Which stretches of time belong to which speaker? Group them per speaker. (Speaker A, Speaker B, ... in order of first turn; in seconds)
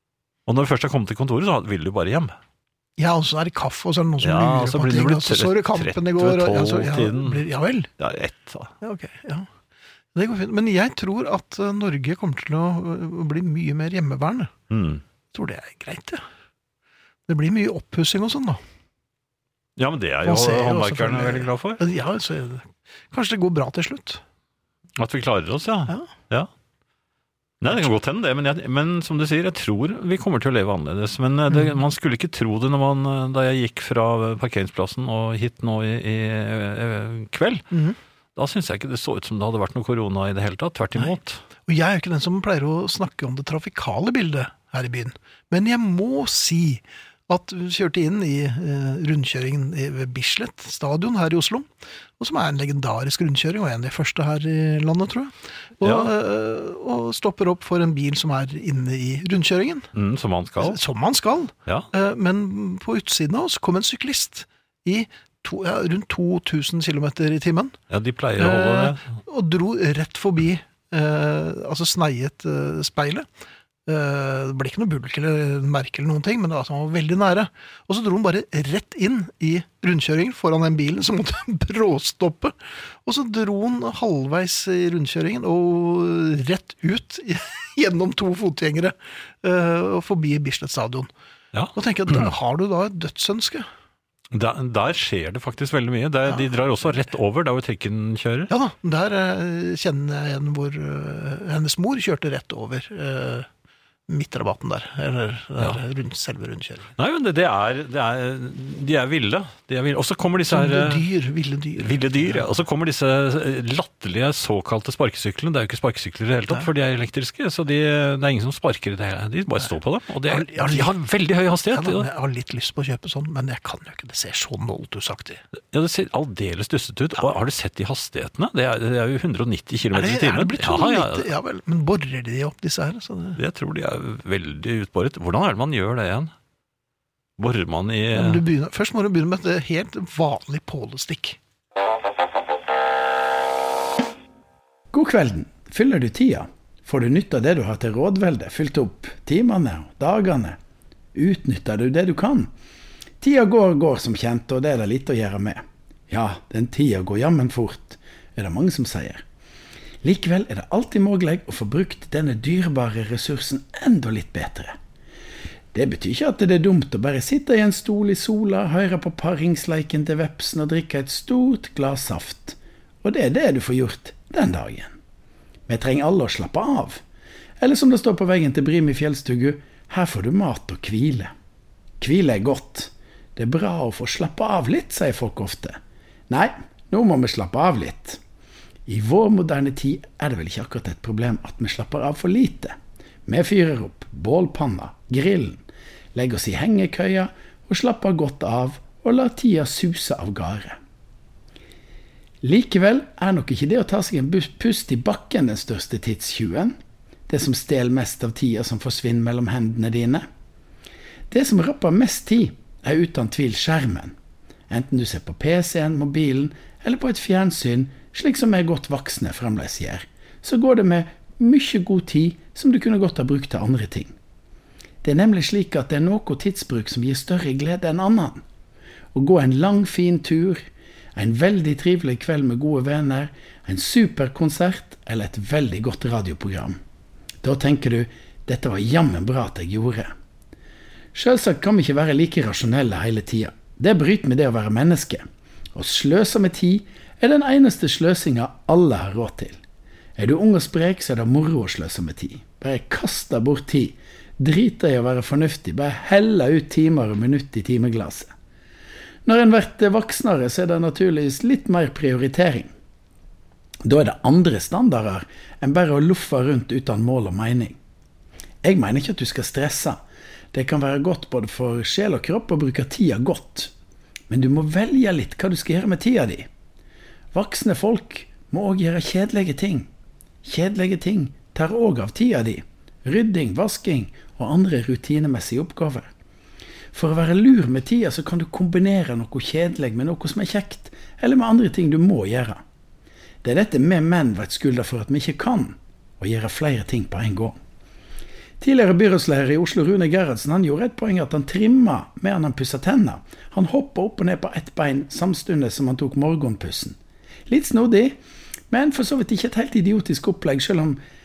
Speaker A: 0.5-2.4, 4.2-7.5, 8.0-8.7, 14.7-15.0, 19.8-21.9, 25.0-26.5, 27.6-37.7, 38.4-41.4, 55.8-56.1, 59.9-60.8, 67.9-69.2, 91.5-92.3, 94.3-98.5, 107.0-111.1, 111.8-122.1, 125.7-131.3, 133.4-136.3, 137.4-138.4
Speaker B: 3.0-7.9, 8.8-9.5, 10.1-14.5, 15.3-16.2, 17.3-18.6, 20.2-24.2, 37.7-38.0, 41.7-59.9, 60.6-67.8, 68.4-73.3, 73.9-91.1, 91.8-93.7, 98.5-103.5, 104.1-106.9, 110.5-112.5, 120.2-120.9, 121.7-125.4, 129.9-133.4, 138.1-141.4
Speaker C: 144.9-150.6, 151.1-152.5, 153.2-159.2, 160.0-164.8, 165.7-175.0, 175.7-177.0, 177.6-181.3, 182.0-185.8, 186.3-188.2, 188.9-192.8, 193.3-195.6, 196.2-200.8, 202.4-206.8, 207.3-210.3, 211.3-214.2, 214.7-224.1, 225.0-228.4, 229.1-230.7, 231.2-236.8, 237.4-240.1, 241.1-249.6, 250.2-258.3, 259.3-262.7, 263.8-267.8, 268.6-270.0, 270.5-273.7, 274.3-276.5, 277.3-279.9, 280.4-286.1, 286.9-292.6, 293.4-297.6, 298.6-307.0, 307.5-308.2, 308.7-311.0